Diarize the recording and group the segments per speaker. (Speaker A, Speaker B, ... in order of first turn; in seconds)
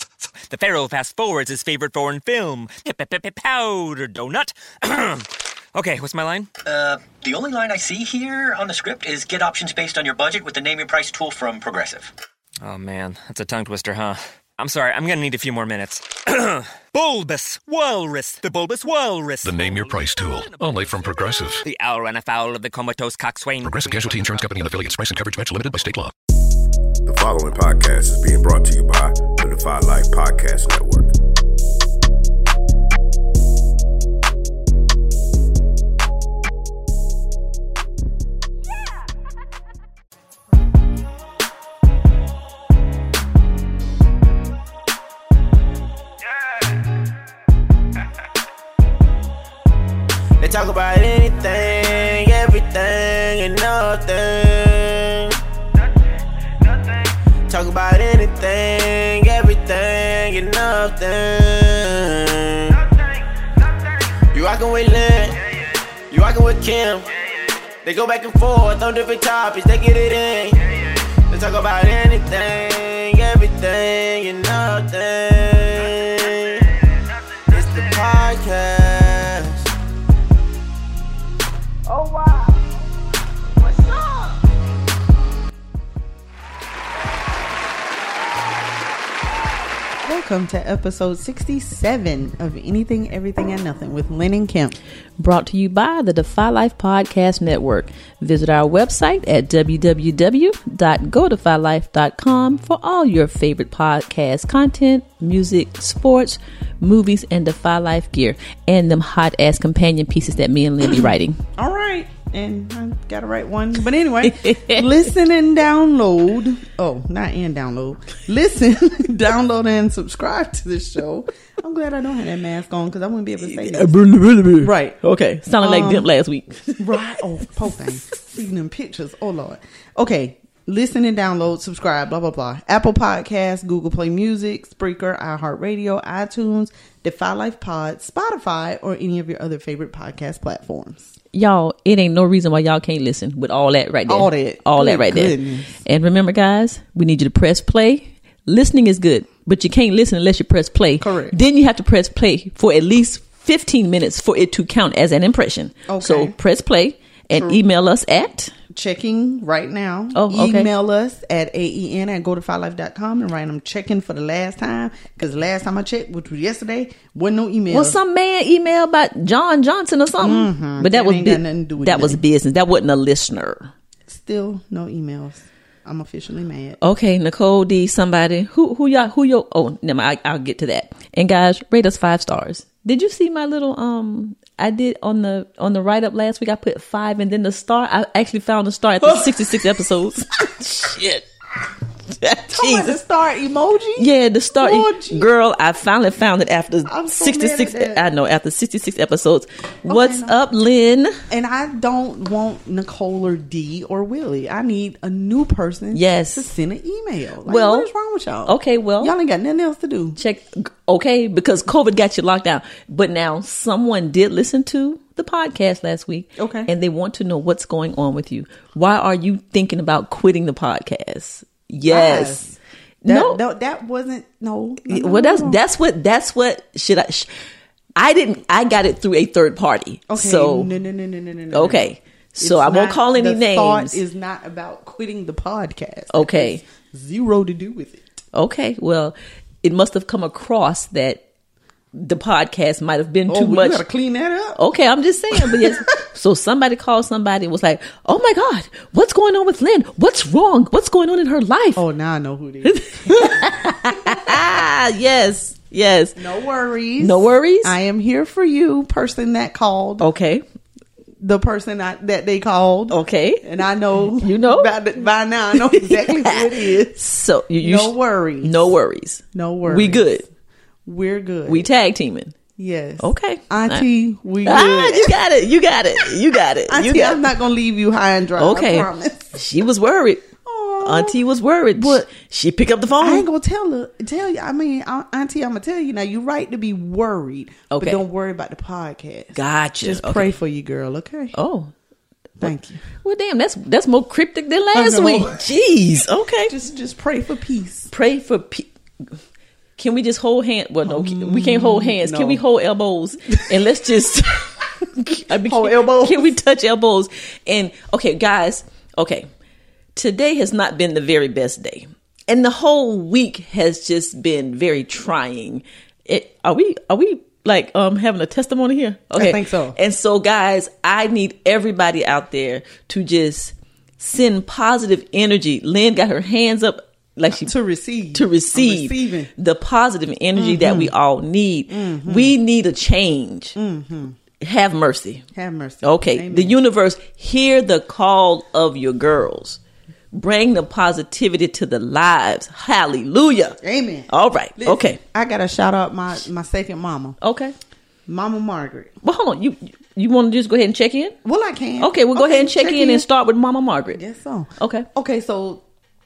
Speaker A: 0.5-6.5, 12.6-20.9, 21.6-24.4
Speaker B: 6.6-12.1
Speaker C: 19.4-21.6, 23.6-26.1
Speaker D: 27.0-31.1
Speaker E: 50.4-55.4, 56.6-65.4, 66.1-76.8, 77.5-79.7
Speaker F: 81.9-82.6, 90.0-94.8, 111.6-123.9, 124.6-125.0, 125.6-126.0, 126.8-141.1, 144.1-145.8, 151.0-151.4, 155.9-156.3, 157.3-157.6, 158.7-168.0, 170.2-172.2, 174.1-176.8, 189.0-189.6, 192.5-195.3, 196.8-198.0, 199.9-200.3, 201.3-210.2, 216.4-216.7, 221.9-225.6, 230.1-231.8, 232.4-238.1, 243.3-244.6, 245.3-245.8, 251.8-254.3, 256.1-260.1, 261.2-267.0, 267.6-268.7, 269.3-270.1, 270.9-271.7, 272.6-275.1, 276.7-279.4, 280.4-281.2, 281.7-282.1, 283.0-291.4, 292.4-292.8, 294.7-295.4, 296.5-297.9, 300.8-302.4, 305.3-306.3, 319.1-319.8, 327.4-329.3, 330.4-330.9, 331.7-332.3, 333.5-334.2, 335.3-336.6, 343.6-347.2, 348.1-348.9, 351.2-353.1, 353.9-355.6
Speaker G: 95.2-111.4, 114.2-114.9, 123.4-127.0, 141.3-158.5, 160.1-160.7, 167.7-173.7, 176.8-191.3, 192.2-193.0, 194.0-201.2, 205.9-206.5, 207.4-207.9, 208.4-209.1, 210.2-222.4, 223.0-223.4, 224.8-227.3, 227.9-230.7, 231.5-234.0, 236.1-236.6, 238.3-241.2, 241.9-243.8, 244.5-251.8, 252.6-256.2, 257.0-257.8, 260.0-260.4, 262.9-263.4, 264.1-264.8, 265.5-270.2, 271.4-272.3, 273.0-273.9, 274.4-277.3, 278.4-280.3, 280.8-283.3, 287.7-288.0, 289.3-290.3, 291.3-291.7, 293.0-296.5, 297.9-298.7, 299.8-309.3, 309.9-327.5, 328.1-333.5, 334.4-335.2, 335.8-339.6, 340.1-343.6, 344.1-345.0, 347.2-347.5, 349.0-351.2, 351.8-354.0, 354.6-354.9